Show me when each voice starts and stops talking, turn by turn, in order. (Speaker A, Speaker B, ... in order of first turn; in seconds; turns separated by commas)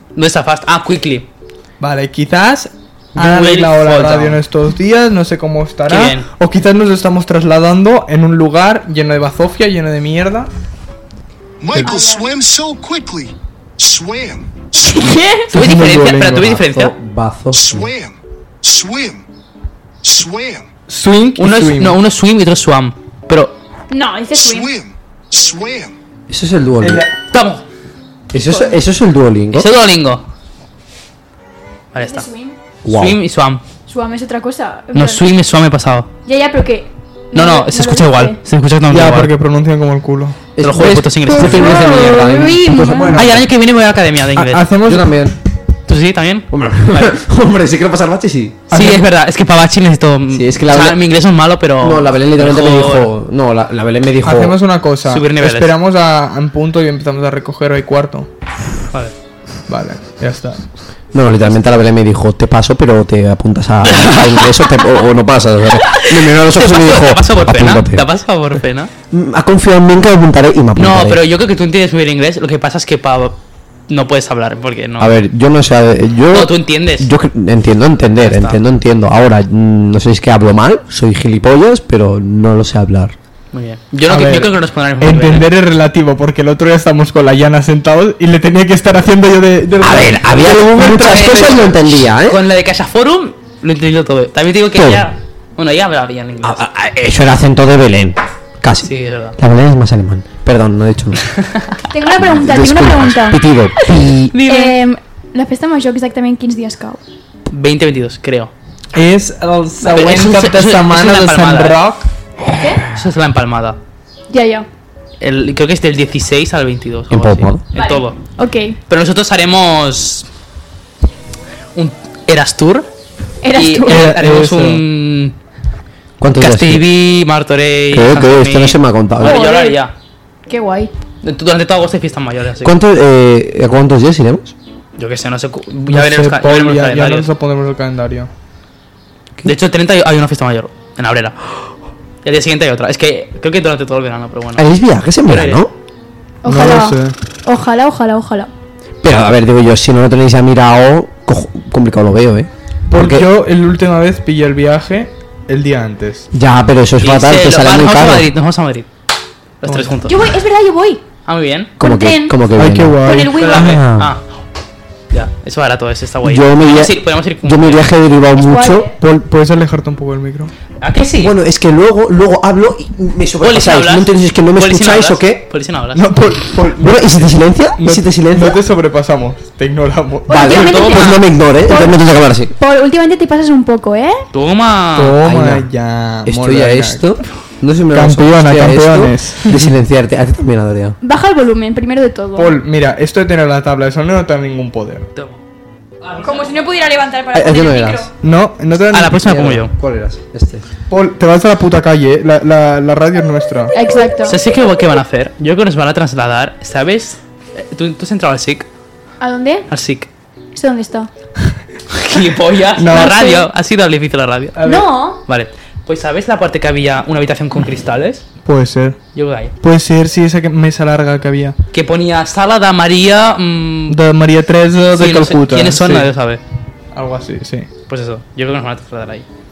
Speaker A: 0.2-1.3, Speaker B: 1.8-10.5, Speaker A: 3.1-4.4, Speaker A: 5.9-6.3, Speaker C: 11.6-15.2, Speaker B: 11.8-12.0, Speaker D: 11.8-12.3, Speaker D: 14.8-15.5, Speaker B: 15.5-16.6, Speaker A: 15.5-16.9, Speaker E: 16.5-17.9, Speaker C: 17.5-19.3, Speaker C: 20.0-20.7, Speaker B: 20.9-22.0, Speaker A: 21.4-23.6, Speaker D: 23.9-24.7, Speaker C: 24.3-26.0, Speaker E: 26.3-27.1, Speaker B: 26.8-27.1, Speaker A: 27.3-27.6, Speaker E: 28.3-29.7, Speaker D: 28.4-28.8, Speaker A: 29.5-30.2, Speaker A: 31.9-32.3, Speaker D: 32.0-32.6, Speaker E: 32.9-33.2, Speaker A: 32.9-33.6, Speaker D: 33.9-35.2, Speaker A: 34.9-36.1, Speaker D: 36.3-38.4, Speaker A: 37.3-39.3, Speaker B: 38.9-40.5, Speaker E: 40.6-43.5, Speaker A: 40.6-42.3, Speaker D: 41.4-43.2, Speaker A: 43.1-44.7, Speaker B: 44.4-45.1, Speaker E: 44.8-45.4, Speaker A: 45.9-47.2, Speaker E: 46.5-48.6, Speaker B: 48.7-49.0, Speaker A: 48.7-53.1, Speaker E: 50.3-51.0, Speaker E: 51.8-54.6, Speaker B: 54.2-58.3, Speaker A: 55.0-55.7, Speaker B: 59.7-60.6, Speaker E: 61.1-68.0, Speaker A: 63.8-64.7, Speaker A: 65.9-68.9, Speaker E: 69.1-71.2, Speaker A: 70.8-75.1, Speaker E: 75.0-83.2, Speaker A: 76.3-77.1, Speaker A: 78.2-78.6, Speaker A: 83.5-85.5, Speaker B: 84.1-91.6, Speaker E: 89.8-92.4, Speaker A: 90.7-96.7, Speaker E: 94.7-95.0, Speaker E: 96.4-101.2, Speaker A: 98.8-99.4, Speaker D: 101.9-107.0, Speaker E: 102.1-104.3, Speaker A: 104.3-104.8, Speaker A: 107.5-108.5, Speaker B: 108.9-112.1, Speaker A: 109.8-111.8, Speaker D: 112.5-112.8, Speaker A: 112.9-113.8, Speaker D: 114.3-114.7, Speaker A: 115.2-118.2, Speaker E: 117.1-117.6, Speaker D: 117.7-118.8, Speaker A: 118.9-120.3, Speaker A: 121.8-122.9, Speaker D: 123.4-124.1, Speaker A: 123.5-125.3, Speaker B: 123.9-124.8, Speaker E: 126.2-126.8, Speaker A: 126.4-129.9, Speaker E: 127.9-129.4, Speaker D: 129.2-129.8, Speaker D: 130.5-130.9, Speaker A: 131.2-132.8, Speaker E: 132.6-134.5, Speaker A: 135.0-137.3, Speaker B: 135.9-138.3, Speaker A: 139.4-141.5, Speaker A: 142.2-144.7, Speaker E: 144.6-145.7, Speaker A: 145.3-145.7, Speaker D: 146.4-148.5, Speaker B: 146.4-147.2, Speaker E: 149.0-153.3, Speaker B: 152.9-156.3, Speaker E: 156.3-158.3, Speaker A: 157.0-158.9, Speaker A: 159.6-160.2, Speaker B: 159.7-160.0, Speaker D: 160.1-161.0, Speaker A: 161.3-161.7, Speaker E: 161.8-164.1, Speaker D: 161.8-162.4, Speaker B: 162.5-163.6, Speaker D: 163.0-163.8, Speaker A: 163.3-164.2, Speaker A: 165.1-167.9, Speaker E: 166.2-169.2, Speaker D: 168.4-168.9, Speaker B: 169.2-170.5, Speaker A: 170.8-171.3, Speaker E: 171.2-175.4, Speaker A: 173.4-176.1, Speaker B: 175.9-177.2, Speaker E: 176.7-178.6, Speaker B: 177.8-180.6, Speaker D: 180.3-184.2, Speaker E: 180.3-182.5, Speaker A: 180.4-181.2, Speaker A: 184.3-185.2, Speaker B: 184.9-187.1, Speaker E: 185.2-185.7, Speaker E: 186.2-191.0, Speaker B: 187.9-189.7, Speaker D: 191.0-192.5, Speaker B: 192.4-195.1, Speaker A: 196.0-196.6, Speaker D: 196.2-198.1, Speaker E: 197.3-198.1, Speaker B: 198.2-199.4, Speaker A: 198.9-199.7, Speaker E: 199.1-200.7, Speaker B: 200.9-203.8, Speaker D: 203.7-204.4, Speaker A: 204.2-208.7, Speaker D: 209.2-209.7, Speaker A: 209.7-210.1, Speaker D: 210.6-211.1, Speaker A: 211.9-218.3, Speaker B: 212.8-213.2, Speaker D: 212.9-213.5, Speaker B: 214.6-214.9, Speaker D: 214.6-215.2, Speaker B: 218.4-219.0, Speaker A: 219.1-219.5, Speaker B: 219.6-221.6, Speaker A: 221.7-224.0, Speaker B: 223.9-226.1, Speaker A: 224.9-226.4, Speaker B: 226.9-227.7, Speaker A: 227.9-229.3